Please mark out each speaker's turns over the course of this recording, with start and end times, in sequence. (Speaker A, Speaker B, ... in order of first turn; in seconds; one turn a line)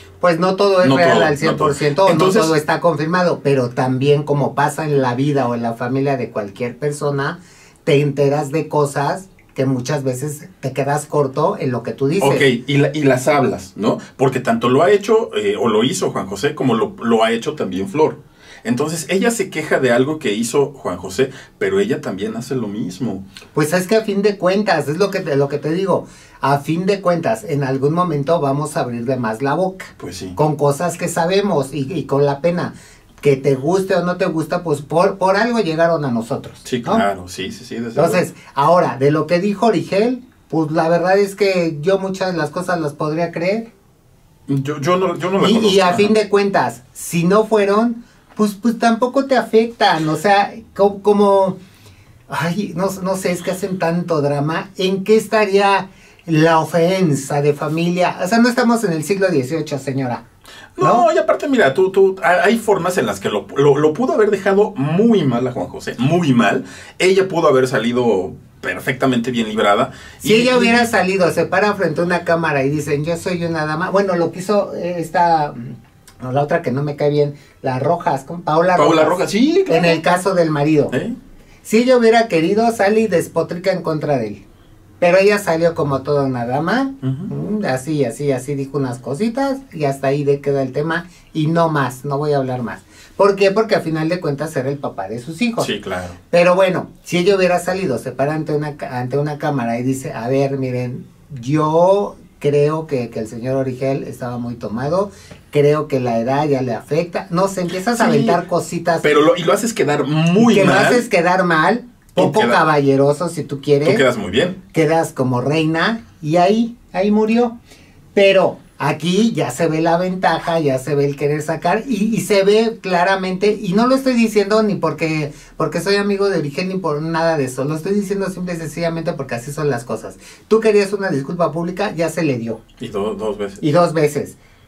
Speaker A: 0.2-12.4
Speaker B: 0.8-2.5
Speaker B: 12.2-23.2
Speaker A: 23.5-37.0
Speaker B: 30.0-30.4
Speaker B: 36.6-38.2
Speaker A: 38.0-43.7
Speaker B: 44.5-46.1
Speaker A: 45.4-51.6
Speaker A: 52.3-60.2
Speaker B: 60.8-70.9
Speaker A: 60.8-61.1
Speaker A: 70.2-81.0
Speaker B: 78.8-80.0
Speaker B: 80.9-81.2
Speaker A: 81.7-84.4
Speaker A: 85.0-95.7
Speaker B: 87.0-87.3
Speaker B: 95.6-96.2
Speaker A: 96.3-109.1
Speaker B: 107.9-108.4
Speaker B: 109.0-111.0
Speaker A: 110.4-114.0
Speaker B: 112.2-112.6
Speaker B: 113.8-114.6
Speaker A: 114.7-117.5
Speaker A: 118.2-132.6
Speaker B: 132.8-133.6
Speaker A: 133.6-134.4